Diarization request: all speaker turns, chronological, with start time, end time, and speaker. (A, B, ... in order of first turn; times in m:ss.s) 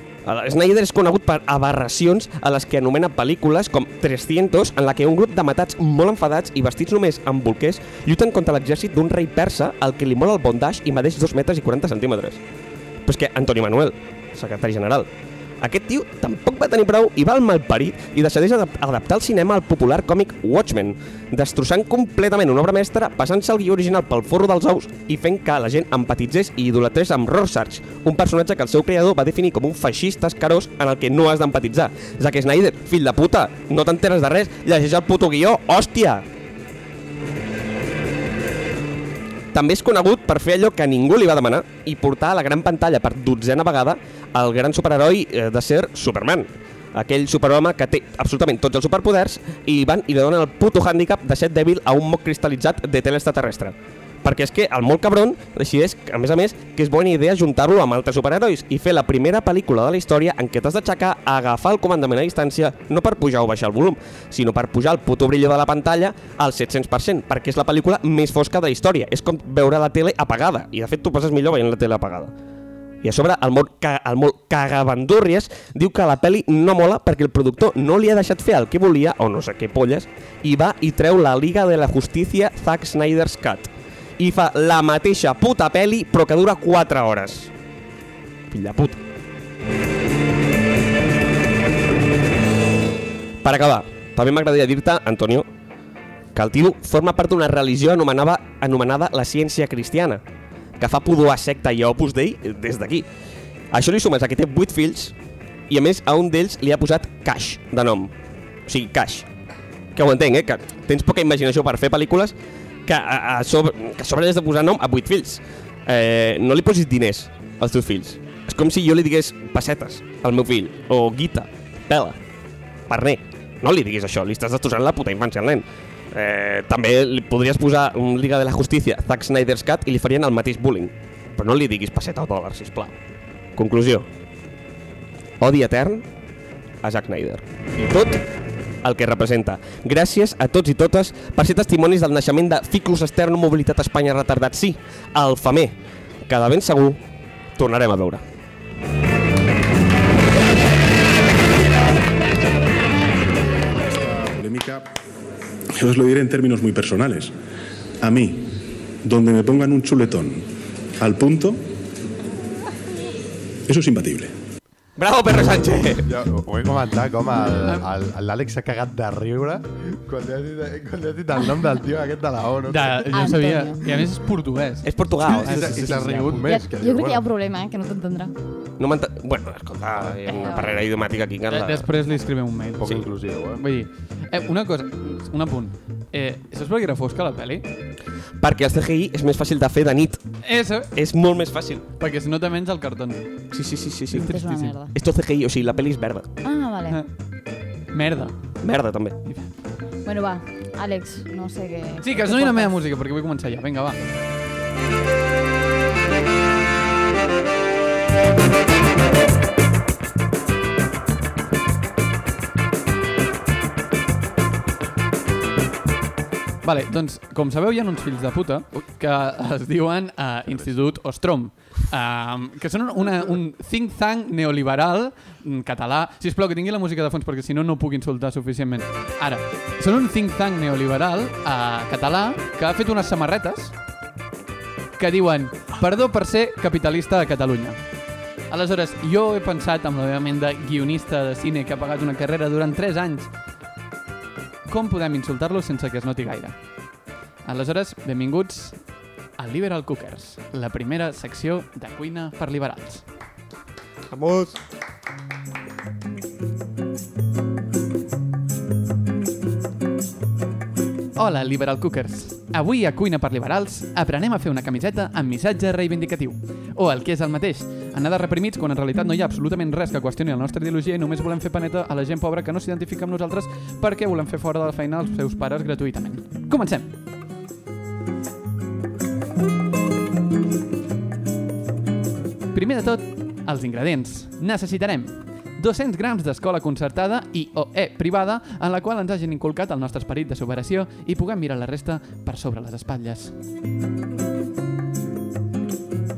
0:00.2-0:12.4 A
0:13.0-0:36.2 A
0:39.5-1:12.3 A
1:13.0-1:27.5 A
1:28.5-1:29.0 A
1:33.4-1:35.5 A
1:36.3-1:40.2 A
1:40.8-1:43.1 A
1:43.7-1:45.1 A
1:45.7-1:48.1 A
1:48.6-1:49.3 A
1:49.9-2:02.2 A
2:02.9-2:13.0 A
2:13.6-2:14.1 A
2:15.4-2:16.1 A
2:16.8-2:18.2 A
2:18.8-2:25.8 A
2:26.3-2:27.0 A
2:27.6-2:28.2 A
2:33.7-2:34.9 B
2:35.7-2:37.3 B
2:38.0-2:41.6 B
2:43.6-2:44.3 B
2:45.0-2:46.1 A
2:46.0-2:53.3 C
2:47.6-2:47.9 D
2:52.7-2:56.5 D
2:53.1-2:53.8 E
2:54.8-2:56.3 A
2:55.2-2:57.2 C
2:56.4-2:58.3 E
2:58.8-3:01.9 A
3:00.2-3:00.7 D
3:01.5-3:03.0 D
3:02.8-3:03.6 C
3:03.6-3:07.7 D
3:08.4-3:10.2 A
3:10.4-3:10.9 D
3:10.9-3:11.8 A
3:12.0-3:13.2 D
3:13.5-3:14.4 A
3:14.1-3:14.8 D
3:14.1-3:14.9 E
3:14.9-3:16.3 A
3:16.4-3:17.0 E
3:17.9-3:18.4 D
3:18.6-3:19.2 A
3:19.2-3:19.5 D
3:20.0-3:22.7 E
3:22.0-3:24.0 D
3:36.6-3:53.7 D
3:55.0-3:57.8 D
3:58.5-4:03.3 D
4:04.7-4:06.5 D
4:07.4-4:08.8 D
4:09.4-4:13.0 D
4:14.1-4:14.6 A
4:21.2-4:36.9 D
4:42.5-4:53.3 D